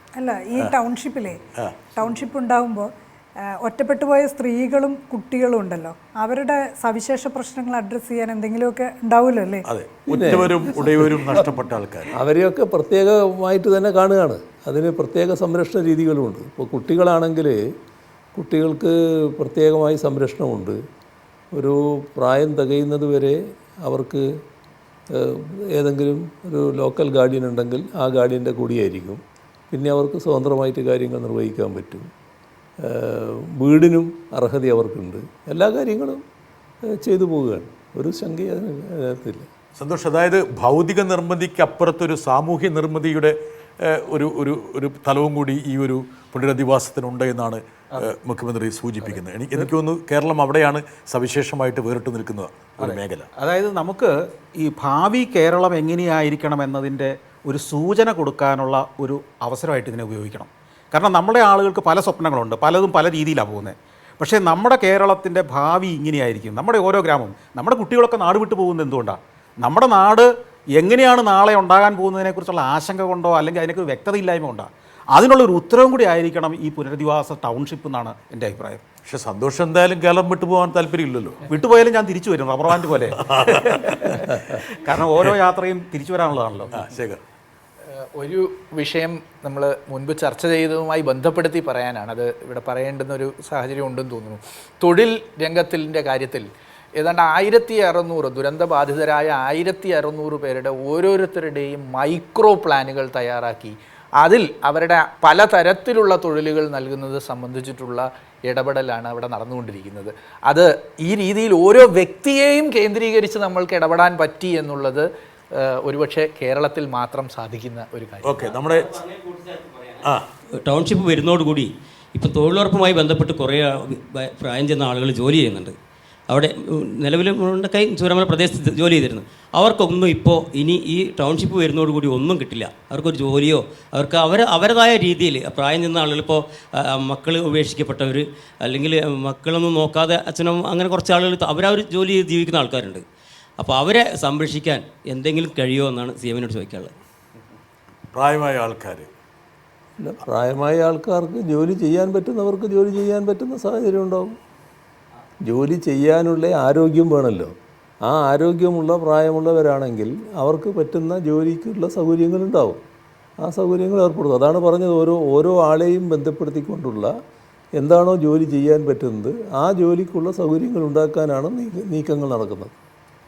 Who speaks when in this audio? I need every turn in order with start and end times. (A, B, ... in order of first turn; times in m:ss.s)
0:00.1-0:01.4 A
0:01.9-0:09.6 A
0:09.7-0:12.1 B
0:10.1-0:11.3 C
0:12.1-0:17.6 C
0:18.3-0:20.8 C
0:21.5-0:24.4 C
0:25.1-0:32.1 C
0:32.8-0:36.2 C
0:36.9-0:39.5 C
0:39.8-0:53.2 B
0:49.0-0:49.7 D
0:52.8-1:18.8 D
1:19.1-1:21.4 B
1:21.5-1:26.9 D
1:23.3-1:24.2 B
1:26.7-1:27.2 B
1:28.1-1:58.5 E
1:58.2-1:58.9 B
1:58.9-2:00.0 F
2:00.6-2:05.8 F
2:06.3-2:23.0 F
2:23.6-2:26.9 F
2:28.1-2:29.1 B
2:30.0-2:34.3 C
2:35.4-2:42.8 C
2:43.4-2:47.1 C
2:47.8-2:52.7 C